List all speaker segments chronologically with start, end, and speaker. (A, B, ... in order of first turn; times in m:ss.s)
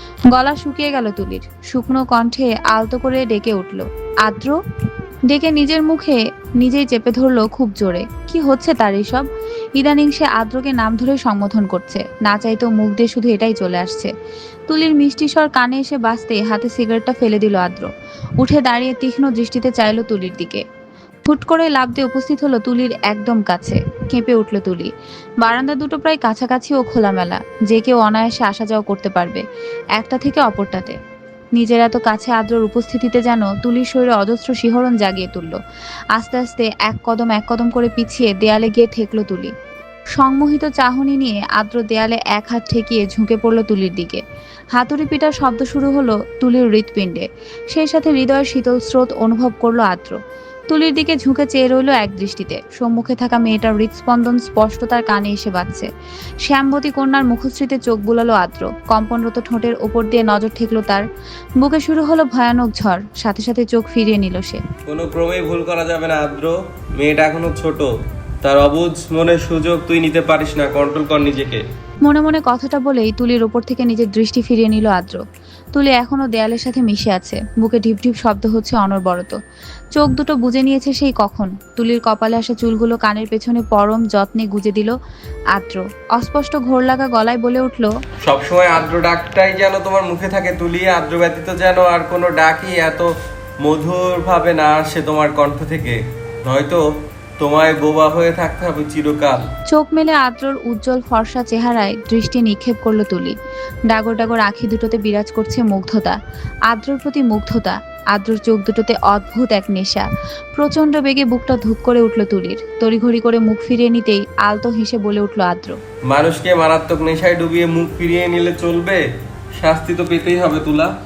0:00.3-0:04.6 A
0:05.3-0:14.1 A
0:14.7-0:17.9 A
0:18.4-0:20.6 A
0:21.3-0:24.9 A
0:25.4-0:29.4 A
0:30.0-0:31.0 A
0:31.6-0:35.6 A
0:36.2-0:39.5 A
0:40.2-0:44.2 A
0:44.8-0:50.2 A
0:50.7-0:55.9 A
0:56.4-1:01.0 A
1:01.6-1:04.6 A
1:04.9-1:07.9 B
1:08.4-1:11.6 B
1:12.0-1:15.2 A
1:15.7-1:19.4 A
1:20.0-1:25.0 A
1:25.5-1:27.9 A
1:28.2-1:36.8 B
1:37.4-1:39.5 B
1:39.7-1:43.4 A
1:43.9-1:46.2 A
1:46.7-1:55.8 A
1:56.1-1:59.0 B
1:59.6-2:00.9 B